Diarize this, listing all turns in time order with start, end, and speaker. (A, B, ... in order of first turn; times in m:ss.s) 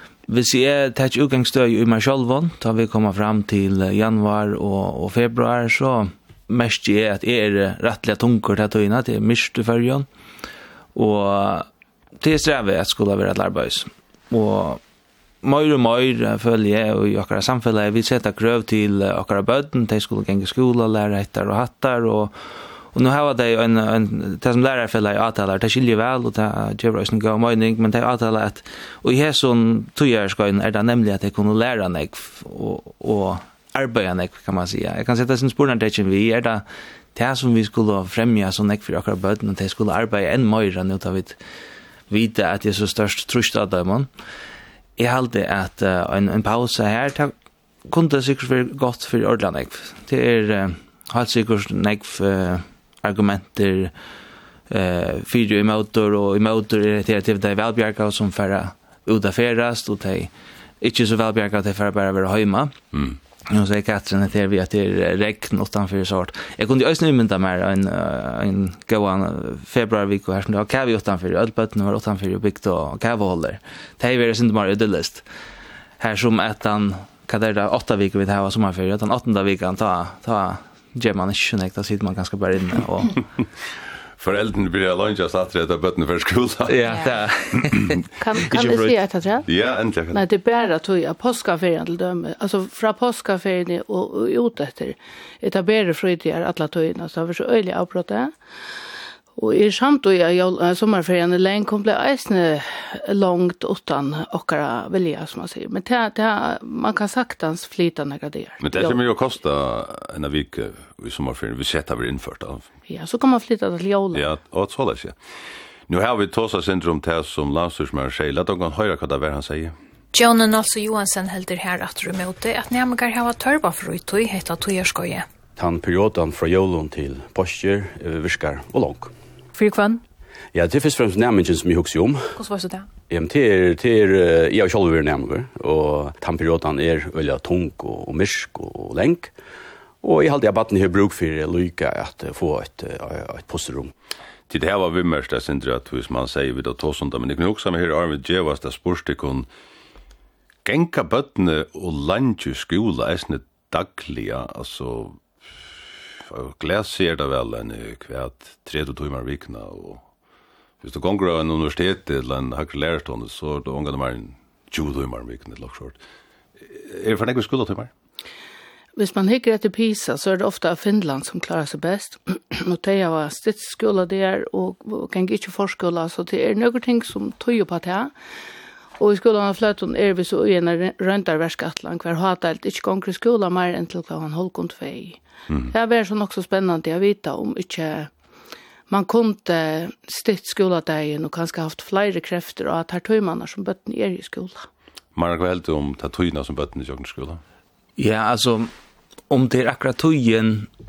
0:00.3-0:10.1 A
0:11.0-0:11.7 A
0:12.2-0:14.8 A
0:15.4-0:22.3 A
0:22.9-0:41.4 A
0:42.1-0:44.1 A
0:45.0-0:47.3 A
0:47.9-0:53.9 A
0:54.7-1:02.8 A
1:02.9-1:03.2 B
1:03.5-1:15.2 A
1:16.0-1:23.1 A
1:24.2-1:27.0 B
1:26.7-1:28.0 A
1:28.2-1:29.5 C
1:28.5-1:28.9 A
1:29.4-1:30.2 B
1:30.1-1:38.4 C
1:39.4-1:49.0 C
1:48.6-1:52.7 B
1:52.9-1:54.2 C
1:54.1-1:55.2 B
1:55.9-1:59.7 B
2:00.1-2:05.3 D
2:05.6-2:09.1 E
2:09.6-2:10.0 D
2:10.5-2:12.4 E
2:12.4-2:12.9 D
2:13.1-2:19.3 E
2:20.0-2:23.9 E
2:24.5-2:29.5 B
2:30.6-2:35.2 B
2:36.3-2:40.0 B
2:40.8-2:46.0 B
2:46.7-2:47.9 B
2:49.0-2:58.1 C
2:59.0-3:08.1 C
3:08.9-3:14.7 C
3:15.2-3:17.4 B
3:18.0-3:18.7 A
3:19.3-3:20.7 A